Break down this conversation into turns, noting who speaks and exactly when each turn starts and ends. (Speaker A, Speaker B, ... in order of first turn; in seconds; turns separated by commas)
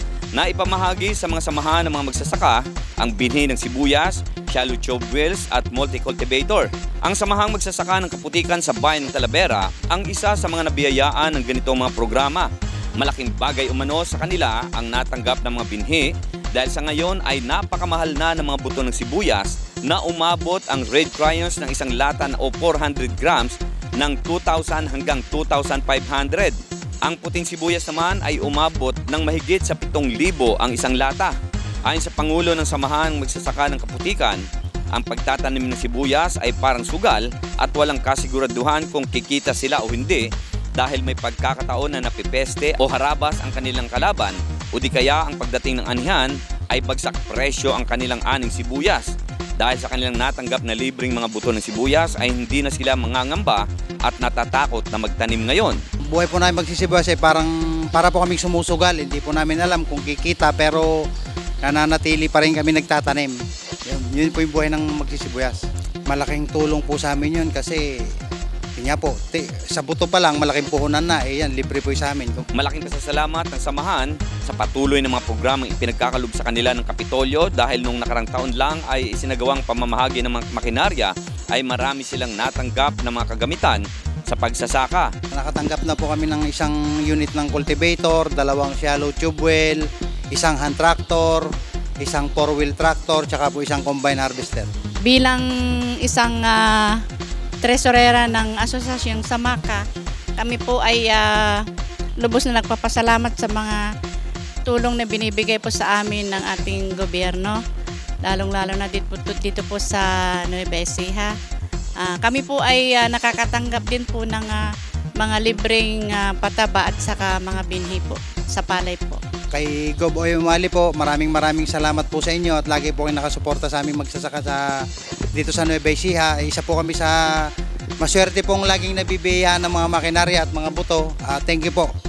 Speaker A: 0.3-55.8, Speaker B: 56.1-61.1, Speaker B: 61.6-63.4, Speaker B: 63.9-68.2, Speaker B: 68.8-72.5, Speaker A: 72.5-85.1, Speaker B: 85.3-94.7, Speaker C: 95.0-97.0, Speaker C: 97.6-99.8, Speaker C: 100.4-101.7, Speaker C: 102.2-103.8, Speaker C: 104.7-107.6, Speaker C: 108.2-111.3, Speaker C: 112.0-114.6, Speaker C: 115.2-119.2, Speaker B: 119.5-127.5, Speaker B: 128.0-131.9